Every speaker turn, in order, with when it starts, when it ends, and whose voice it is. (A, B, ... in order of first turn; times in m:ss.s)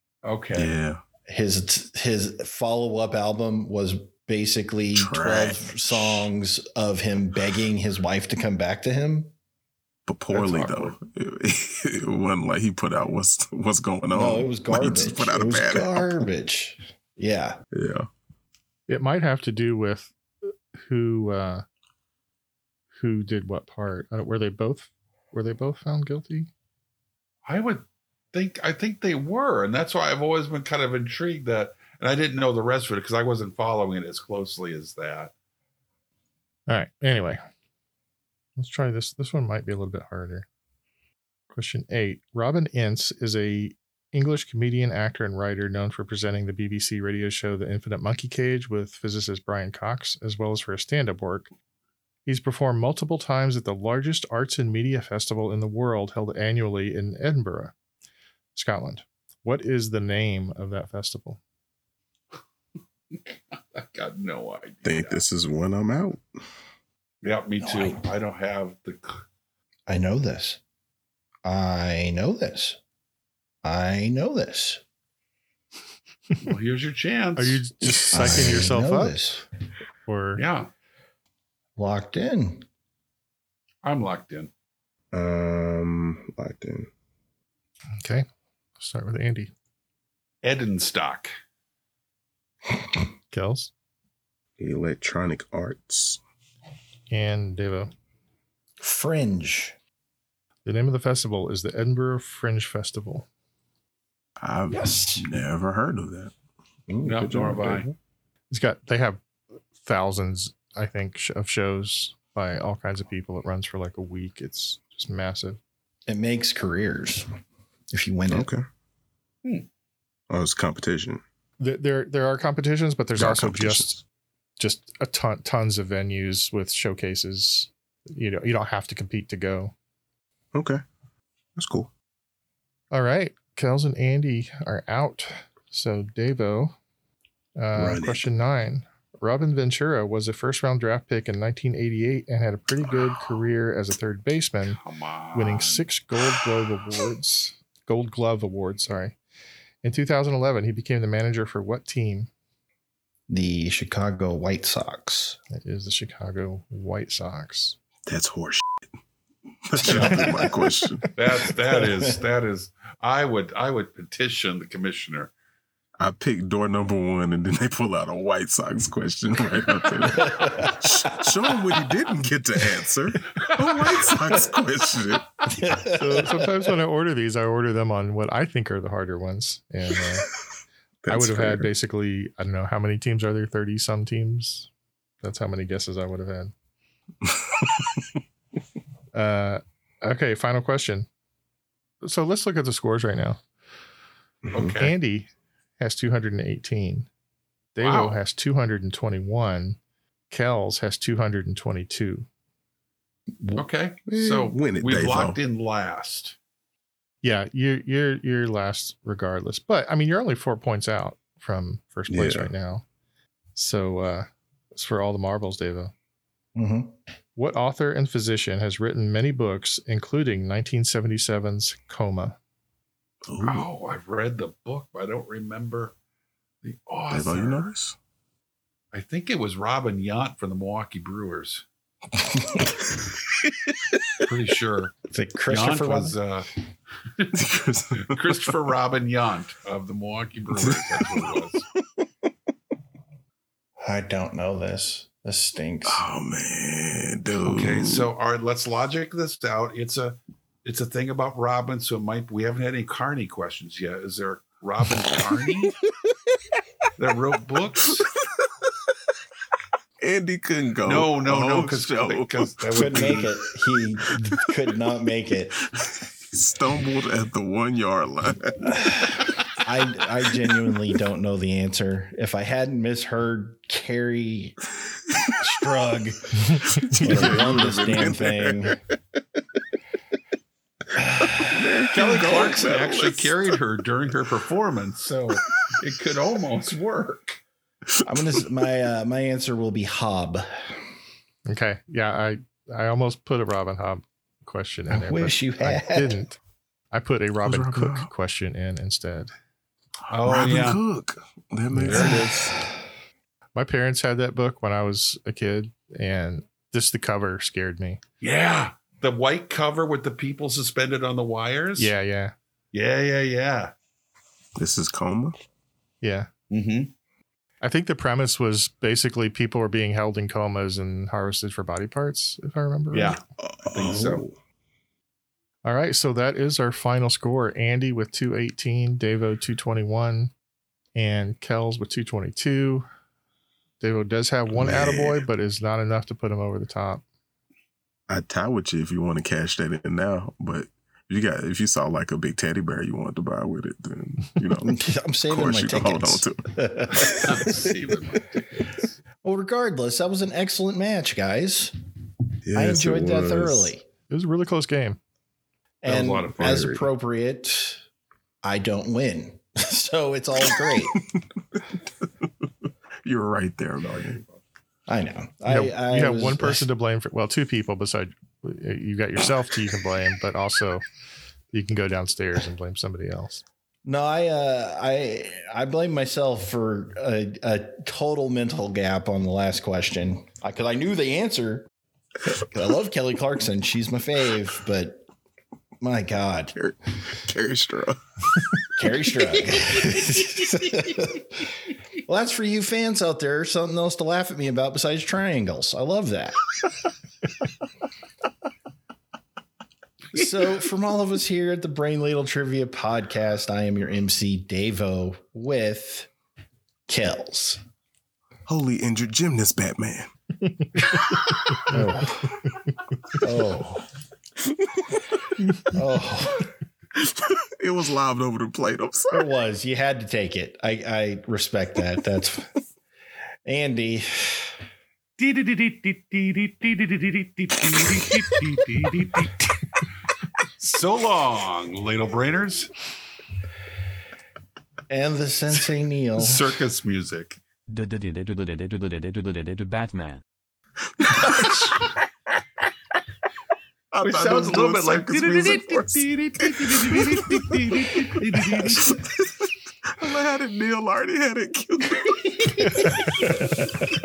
0:00.2-0:00.7 A
0:00.5-0:01.0 B
0:01.3-0:09.3 C
0:05.0-0:06.3 B
0:10.0-0:16.3 B
0:10.3-0:10.9 A
0:14.1-0:17.6 C
0:17.7-0:18.1 B
0:18.9-0:21.6 D
0:22.9-0:26.5 D
0:27.4-0:35.3 A
0:36.7-0:37.4 D
0:38.6-0:40.4 D
0:41.5-0:51.5 D
0:52.2-0:57.7 D
0:58.5-1:01.4 D
1:03.1-1:05.2 A
1:04.8-1:06.3 B
1:07.2-1:09.2 A
1:07.6-1:08.0 C
1:09.9-1:10.6 C
1:11.4-1:12.8 C
1:13.6-1:14.8 C
1:16.4-1:17.6 A
1:17.4-1:19.2 D
1:18.1-1:19.4 C
1:20.1-1:20.4 D
1:20.4-1:20.7 A
1:21.8-1:22.6 C
1:23.8-1:24.5 A
1:25.1-1:26.9 B
1:28.0-1:28.2 D
1:28.8-1:29.5 D
1:30.4-1:31.3 A
1:33.3-1:33.7 D
1:34.6-1:36.2 B
1:37.1-1:37.9 D
1:38.8-1:39.8 C
1:40.6-1:43.3 D
1:44.4-1:46.3 B
1:44.7-1:45.2 C
1:46.9-1:47.9 B
1:47.0-1:47.9 A
1:48.5-1:49.2 D
1:49.8-1:55.6 D
1:56.1-1:57.3 C
1:57.9-1:58.5 C
1:58.3-1:58.6 B
2:00.3-2:01.2 B
2:01.6-2:04.0 D
2:03.2-2:04.0 B
2:04.6-2:09.7 D
2:10.5-2:10.8 B
2:11.6-2:11.9 B
2:12.9-2:16.7 D
2:17.6-2:24.8 D
2:17.7-2:18.3 B
2:24.7-2:25.8 A
2:25.3-2:29.2 D
2:29.8-2:32.3 D
2:33.3-2:35.4 C
2:35.5-2:37.8 D
2:38.0-2:38.9 B
2:39.6-2:41.1 B
2:39.8-2:40.3 A
2:41.1-2:45.3 A
2:41.8-2:42.1 C
2:46.0-2:55.5 B
2:50.2-2:51.1 C
2:55.5-2:56.7 C
2:55.9-3:00.2 D
3:01.0-3:01.7 B
3:01.1-3:04.7 D
3:05.2-3:06.5 D
3:09.1-3:11.1 D
3:12.0-3:13.4 D
3:14.5-3:14.9 A
3:14.8-3:17.1 D
3:17.7-3:19.8 D
3:17.8-3:18.2 A
3:20.3-3:22.3 D
3:23.5-3:26.4 A
3:24.1-3:25.4 B
3:27.2-3:32.8 D
3:32.1-3:32.5 B
3:33.5-3:35.9 D
3:36.5-3:36.9 C
3:37.4-3:42.4 D
3:43.3-3:43.6 B
3:43.4-3:45.9 A
3:46.6-3:47.7 A
3:47.1-3:48.0 B
3:48.9-3:51.6 A
3:52.3-3:52.6 C
3:54.2-3:54.9 A
3:55.1-3:56.2 C
3:55.5-3:56.5 A
3:57.3-3:58.6 B
3:58.0-4:01.6 A
4:00.6-4:01.3 B
4:03.8-4:06.0 C
4:05.8-4:08.1 B
4:07.4-4:15.7 A
4:17.0-4:18.0 A
4:20.0-4:23.3 B
4:20.8-4:23.3 A
4:22.7-4:25.5 C
4:26.3-4:28.6 B
4:28.6-4:34.6 C
4:35.4-4:36.3 C
4:36.5-4:37.0 D
4:36.9-4:38.6 B
4:36.9-4:38.8 C
4:41.0-4:41.4 C
4:41.3-4:43.5 B
4:41.9-4:47.4 A
4:48.0-4:50.8 C
4:51.5-4:56.4 D
4:54.9-4:56.2 C
4:56.9-4:59.3 D
4:57.4-4:58.1 B
5:00.1-5:00.8 A
5:00.1-5:02.6 B
5:01.7-5:02.4 A
5:03.5-5:08.0 D
5:08.2-5:11.9 A
5:11.8-5:12.3 D
5:12.7-5:13.7 A
5:14.6-5:15.4 B
5:16.0-5:16.3 D
5:16.5-5:16.9 A
5:17.6-5:23.2 D
5:22.9-5:24.2 A
5:23.4-5:24.4 B
5:25.6-5:30.3 D
5:31.0-5:32.9 D
5:33.8-5:37.0 D
5:34.5-5:35.3 B
5:38.1-5:47.2 B
5:44.6-5:47.6 C
5:47.0-5:48.9 A
5:49.2-5:51.7 C
5:52.4-5:53.7 B
5:52.5-5:53.8 C
5:54.1-5:55.0 D
5:55.8-5:57.8 C
5:55.8-5:56.4 A
5:56.3-5:56.8 B
5:58.4-6:01.0 C
6:03.0-6:04.2 B
6:04.9-6:06.6 C
6:05.4-6:10.8 D
6:11.5-6:13.4 D
6:13.8-6:21.7 C
6:22.3-6:25.0 C
6:25.8-6:26.5 C
6:26.6-6:28.0 B
6:28.8-6:31.5 C
6:32.0-6:36.5 C
6:40.1-6:46.1 C
6:46.9-6:47.6 C
6:48.5-6:50.1 B
6:51.5-6:51.8 D
6:51.7-6:52.3 C
6:53.1-6:53.8 C
6:55.7-6:56.5 C
6:57.0-6:59.3 B
6:59.1-7:02.5 C
7:03.4-7:04.5 C
7:05.2-7:09.5 A
7:10.6-7:12.7 A
7:14.9-7:16.6 C
7:16.2-7:17.4 A
7:17.7-7:20.2 E
7:21.1-7:21.5 B
7:21.2-7:21.7 A
7:23.9-7:33.4 B
7:24.0-7:29.0 A
7:32.6-7:33.6 D